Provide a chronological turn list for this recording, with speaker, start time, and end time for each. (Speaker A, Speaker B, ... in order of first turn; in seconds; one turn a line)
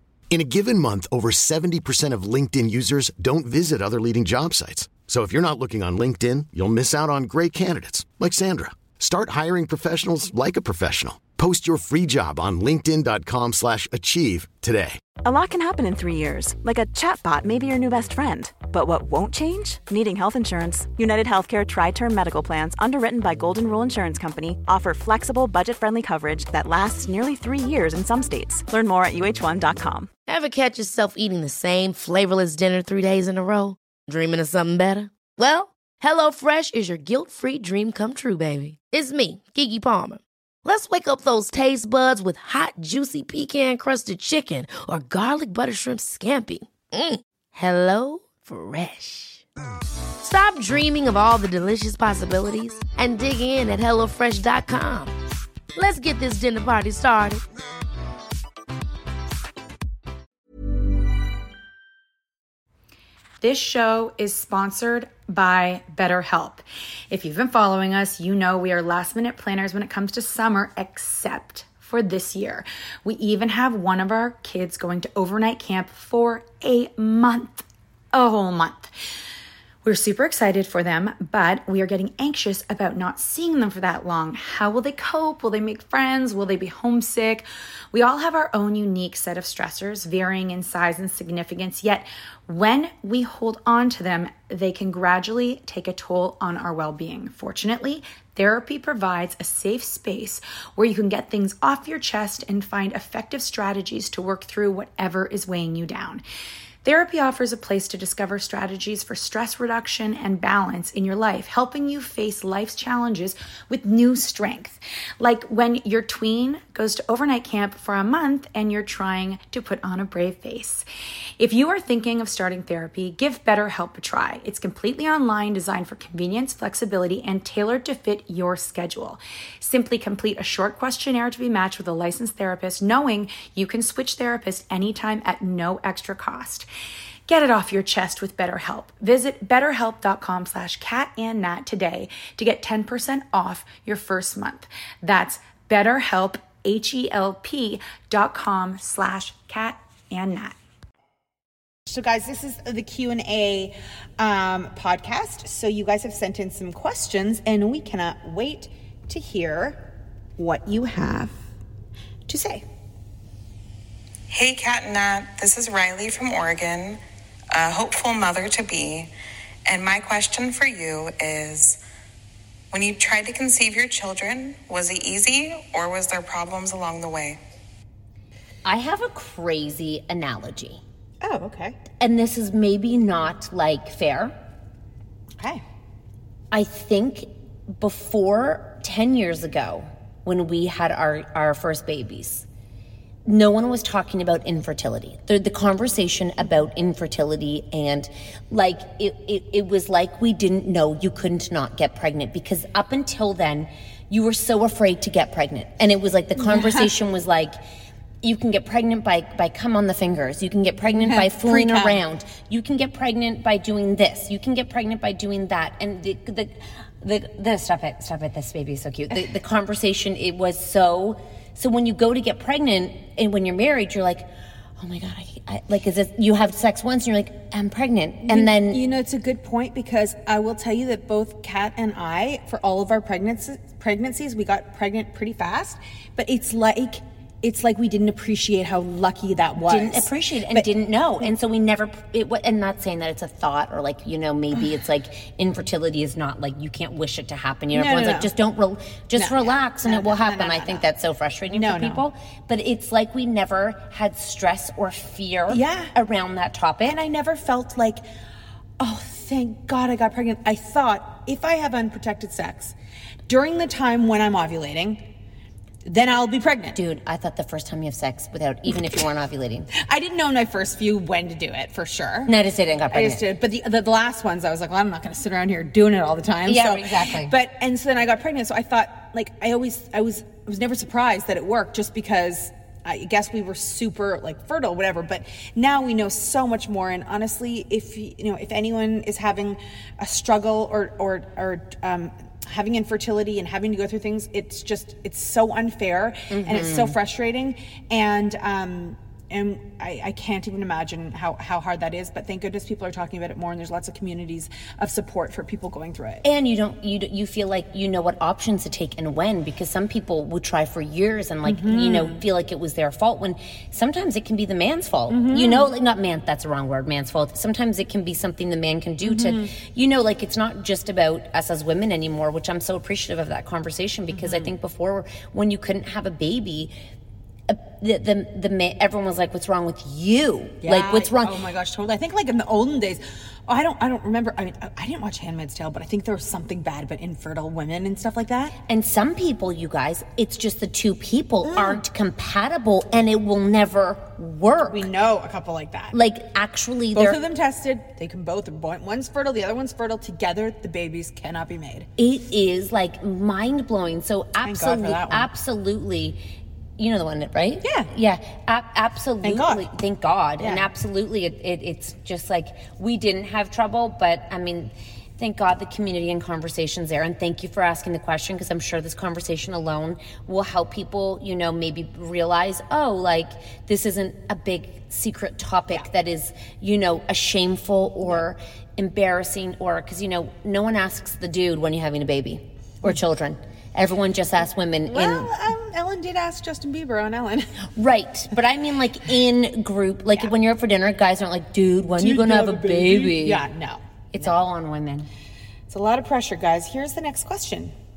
Speaker A: 0.3-15.0
Speaker B: 15.2-30.1
Speaker C: 30.3-49.4
Speaker C: 50.2-55.1
Speaker C: 55.7-57.4
Speaker D: 63.4-78.9
Speaker D: 79.8-106.2
Speaker D: 106.8-120.8
Speaker D: 121.4-136.7
Speaker D: 137.3-150.6
Speaker E: 151.9-159.8
Speaker E: 160.4-161.4
Speaker E: 162.3-162.7
Speaker F: 164.3-167.0
Speaker F: 167.5-169.1
Speaker F: 169.7-171.8
Speaker F: 172.7-177.4
Speaker G: 178.7-180.8
Speaker E: 181.2-181.8
Speaker G: 182.0-184.3
Speaker G: 186.5-192.4
Speaker G: 193.3-207.6
Speaker E: 206.4-206.9
Speaker G: 208.2-224.3
Speaker E: 211.0-212.0
Speaker G: 224.8-228.8
Speaker E: 228.3-240.7
Speaker G: 239.7-257.0
Speaker E: 247.7-248.3
Speaker E: 249.2-250.8
Speaker E: 251.5-252.0
Speaker E: 255.5-255.9
Speaker E: 256.8-258.0
Speaker E: 258.8-262.7
Speaker E: 263.3-265.0
Speaker E: 265.8-266.8
Speaker G: 266.8-269.7
Speaker E: 269.8-272.3
Speaker G: 272.3-273.2
Speaker E: 272.9-306.2
Speaker G: 276.4-277.3
Speaker G: 296.3-296.9
Speaker G: 306.2-326.7
Speaker E: 311.4-312.2
Speaker E: 315.1-315.7
Speaker E: 319.0-319.5
Speaker E: 324.1-324.5
Speaker G: 327.5-331.3
Speaker E: 330.6-338.5
Speaker G: 338.7-344.9
Speaker E: 341.4-341.8
Speaker E: 344.7-345.9
Speaker G: 345.9-347.2
Speaker E: 346.9-351.9
Speaker G: 352.0-356.2
Speaker E: 354.4-355.3
Speaker G: 356.8-385.3
Speaker E: 357.6-357.9
Speaker E: 359.2-359.7
Speaker E: 360.4-360.7
Speaker E: 384.9-387.5
Speaker G: 387.8-393.4
Speaker E: 391.9-394.3
Speaker G: 394.1-395.1
Speaker E: 395.7-397.7